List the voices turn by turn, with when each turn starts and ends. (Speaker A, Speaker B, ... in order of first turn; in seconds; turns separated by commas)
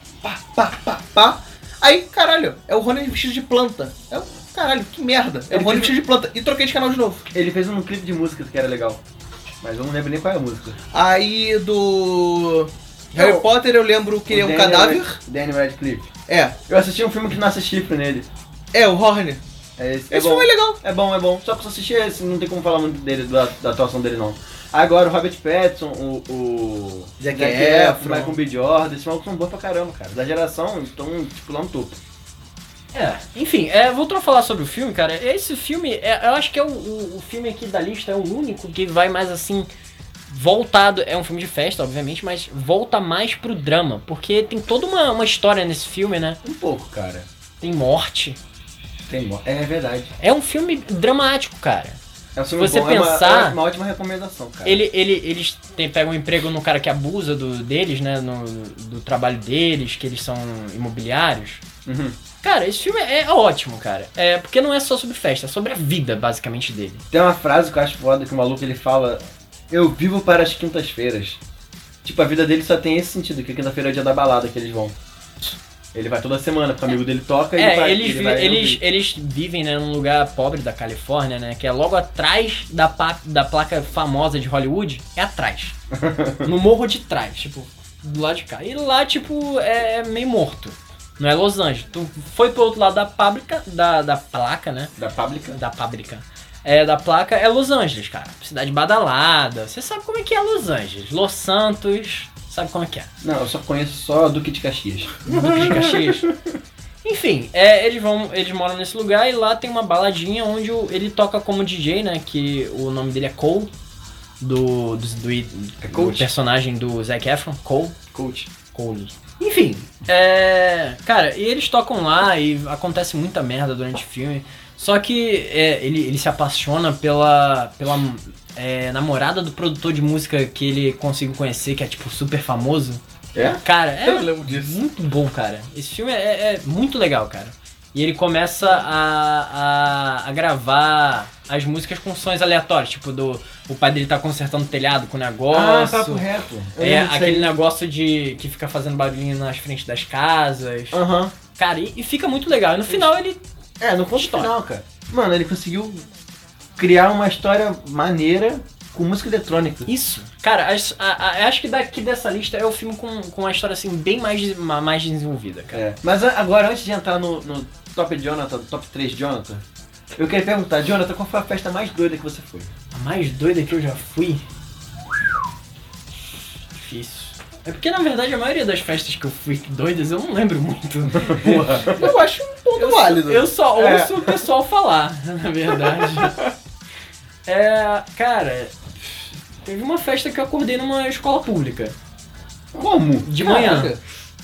Speaker A: 0.2-7.2, Speaker B: 5.5-5.9, Speaker B: 7.3-9.0, Speaker B: 9.6-10.8, Speaker A: 10.9-15.2, Speaker B: 13.1-13.5, Speaker B: 14.3-16.1, Speaker A: 16.3-16.6, Speaker B: 16.7-18.3, Speaker A: 18.7-19.4, Speaker B: 19.8-32.0, Speaker A: 20.1-20.8, Speaker A: 27.2-28.4, Speaker C: 32.9-39.7, Speaker C: 40.3-46.4, Speaker B: 46.4-47.3, Speaker C: 47.6-48.4, Speaker B: 49.1-50.1, Speaker C: 50.2-52.0, Speaker B: 52.4-54.9, Speaker C: 52.5-53.6, Speaker C: 54.6-61.6, Speaker B: 61.9-62.1, Speaker C: 62.4-67.0, Speaker B: 67.1-71.4, Speaker B: 72.0-74.9, Speaker B: 75.9-78.8, Speaker C: 77.5-85.7, Speaker B: 85.9-86.5, Speaker C: 86.4-94.9, Speaker B: 95.0-95.6, Speaker C: 95.5-103.1, Speaker B: 103.2-106.3, Speaker C: 105.3-106.3, Speaker C: 107.0-113.7, Speaker C: 114.4-118.0, Speaker B: 115.8-116.3, Speaker B: 118.1-118.5, Speaker C: 118.7-133.0, Speaker B: 133.3-133.6, Speaker C: 133.6-146.2, Speaker A: 134.0-134.8, Speaker B: 145.5-147.5, Speaker C: 146.8-151.0, Speaker B: 150.9-151.3, Speaker C: 151.6-153.4, Speaker B: 153.8-156.0, Speaker C: 154.1-154.5, Speaker B: 156.8-159.9, Speaker C: 159.9-165.8, Speaker B: 165.7-169.6, Speaker B: 170.2-172.7, Speaker C: 172.9-174.4, Speaker C: 176.7-182.0, Speaker B: 181.2-182.1, Speaker A: 181.9-183.5, Speaker C: 182.8-186.4, Speaker B: 183.8-184.2, Speaker B: 186.0-186.5, Speaker C: 187.4-188.7, Speaker C: 189.6-191.9, Speaker B: 192.7-193.3, Speaker C: 193.2-193.9, Speaker A: 193.4-194.0